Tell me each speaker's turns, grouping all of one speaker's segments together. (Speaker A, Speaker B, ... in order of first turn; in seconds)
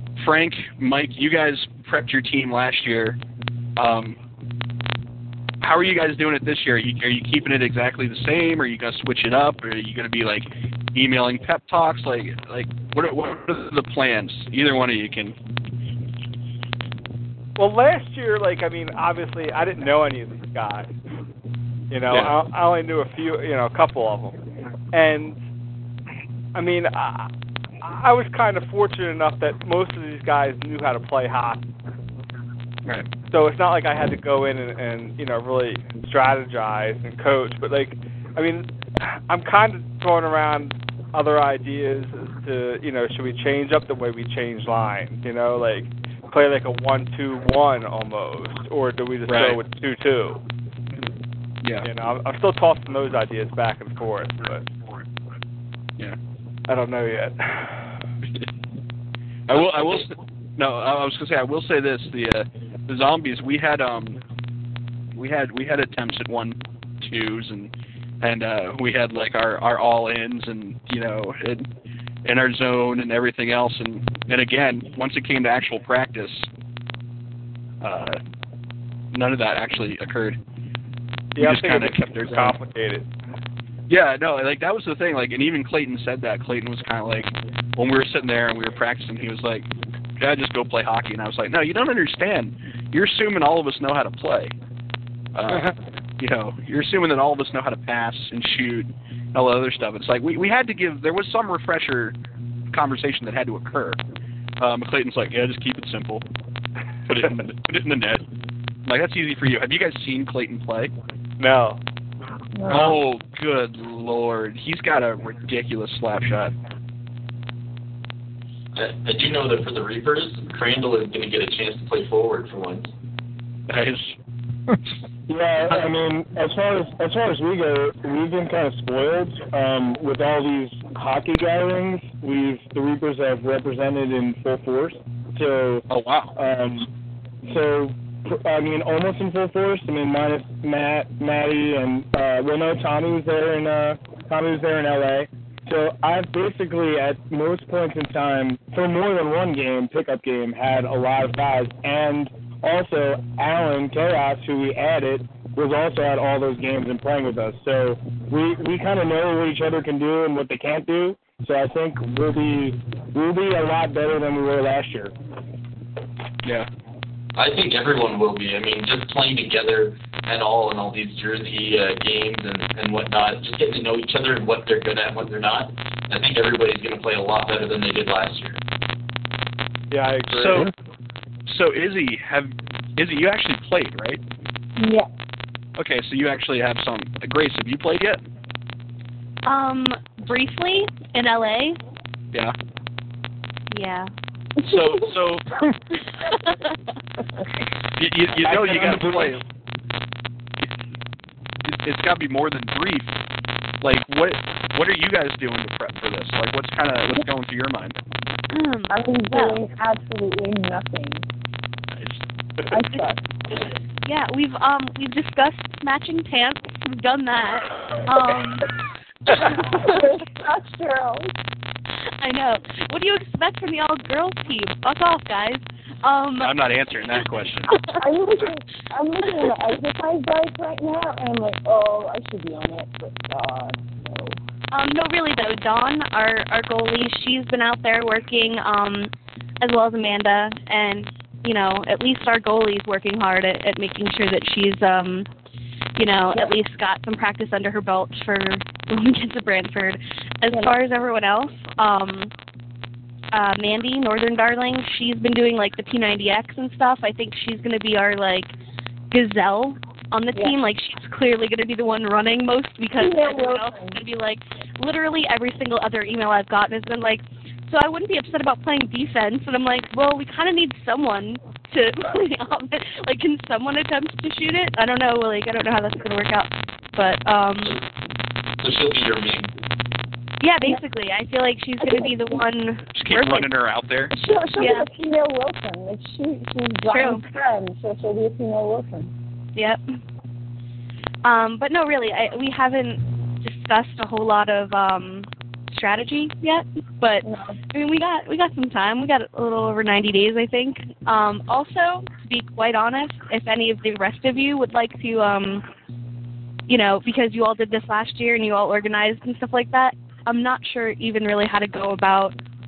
Speaker A: 0.2-3.2, 3.8-4.2, 5.6-15.3, 22.1-22.4, 49.3-49.6, 59.5-64.2, 65.1-71.7, 72.2-76.5, 77.8-78.2, 79.1-80.4, 81.4-82.6, 83.9-94.5, 95.3-102.2, 102.7-104.0, 104.6-106.2, 107.1-108.2, 108.9-110.9, 112.7-116.5, 123.7-124.2, 135.9-136.3, 180.3-180.7, 181.5-184.2, 185.8-188.2, 194.6-195.4, 198.0-199.4, 201.7-203.1, 203.8-208.0, 211.9-212.2, 226.4-227.8, 282.9-284.1
Speaker B: 17.6-20.9, 21.9-24.4, 24.9-25.4, 26.5-27.3, 27.8-31.6, 33.3-50.4, 51.8-54.7, 56.7-57.9, 81.3-83.1, 111.4-111.8, 179.9-180.7
Speaker C: 112.5-113.0, 184.8-185.1, 194.6-194.8, 208.9-211.2, 212.7-213.2, 219.3-221.3, 228.0-234.4, 263.0-264.0, 281.8-282.4, 284.1-289.1, 297.2-297.6
Speaker D: 118.7-122.9, 167.3-178.6, 278.6-279.5
Speaker E: 125.3-136.9, 137.4-165.1, 198.3-199.4
Speaker F: 189.4-191.8, 193.7-194.1, 208.5-209.6, 213.5-218.7, 219.3-219.8, 222.2-226.5, 227.7-228.0, 234.7-245.3, 246.0-252.3, 253.3-258.5, 259.1-277.8, 280.4-283.5, 284.6-284.9, 286.9-287.2, 289.6-289.8, 291.2-305.6, 306.7-312.4